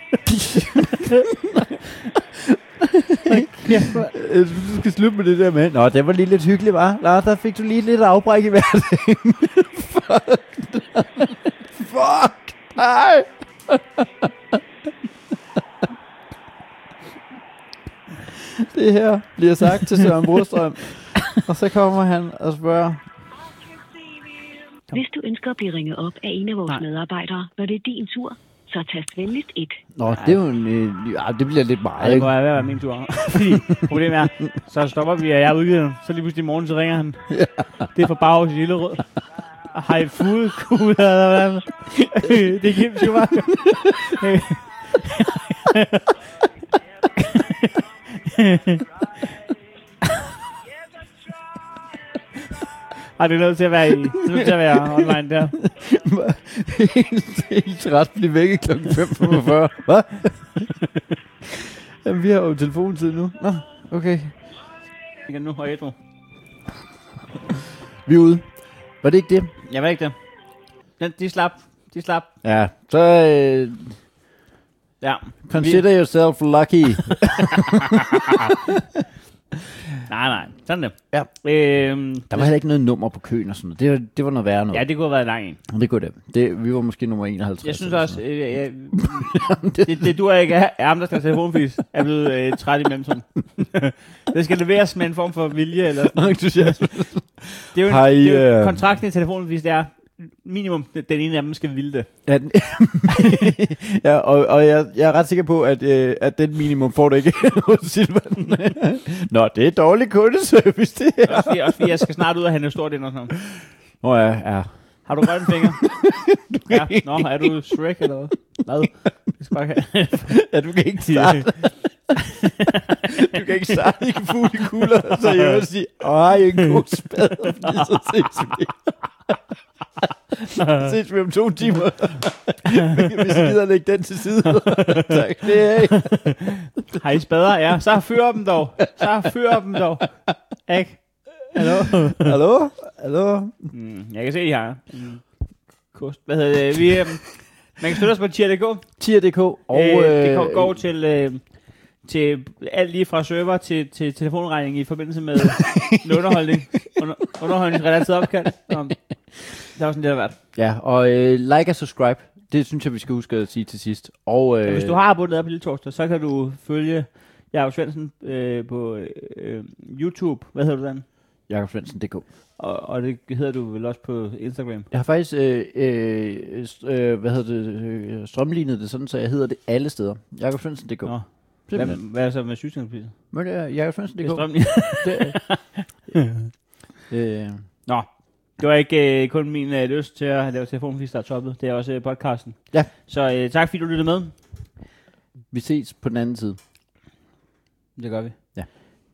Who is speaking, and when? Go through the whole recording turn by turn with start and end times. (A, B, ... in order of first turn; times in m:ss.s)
0:00.2-0:14.6 A
0:03.2-0:04.1 B
0:18.3-0:23.0 A
0:24.9-0:29.8 C
0:30.0-0:32.3 A
0:32.0-0:37.3 B
0:37.3-0:37.9 A
0:37.9-0:39.0 B
0:39.7-0:46.1 B
0:47.2-0:48.8 B
0:53.2-0:55.6 B
0:54.3-1:00.7 A
1:01.4-1:04.4 A
1:05.3-1:06.0 B
1:08.0-1:08.5 A
1:09.0-1:09.5 A
1:09.6-1:10.2 B
1:11.0-1:12.3 B
1:12.4-1:14.0 A
1:15.0-1:15.8 B
1:15.5-1:18.8 A
1:17.1-1:18.6 B
1:20.1-1:22.5 B
1:22.3-1:24.8 A
1:24.7-1:25.6 B
1:25.7-1:28.2 A
1:27.6-1:36.9 B
1:28.9-1:30.1 A
1:36.1-1:38.8 A
1:37.7-1:42.1 B
1:42.2-1:52.0 A
1:51.2-1:53.4 B
1:54.0-1:57.5 A
1:55.0-1:55.8 B
1:56.6-2:00.4 B
2:00.2-2:01.7 A
2:01.0-2:01.5 B
2:02.4-2:03.2 B
2:03.0-2:09.3 A
2:10.5-2:16.3 A
2:14.8-2:15.2 B
2:16.0-2:20.1 B
2:20.6-2:22.3 B
2:22.0-2:23.7 A
2:23.7-2:25.2 B
2:25.9-2:28.8 B
2:29.0-2:30.8 A
2:29.7-2:31.4 B
2:32.0-2:39.0 B
2:35.5-2:36.4 A
2:39.6-2:40.4 B
2:40.5-2:45.0 A
2:44.6-2:51.1 B
2:51.5-2:52.2 A
2:52.6-2:54.9 B
2:54.9-3:01.2 A
3:01.0-3:03.2 B
3:01.7-3:02.0 A
3:03.3-3:05.4 A
3:04.2-3:06.5 B
3:07.1-3:07.6 A
3:07.9-3:14.3 B
3:15.5-3:16.6 A
3:18.0-3:18.4 B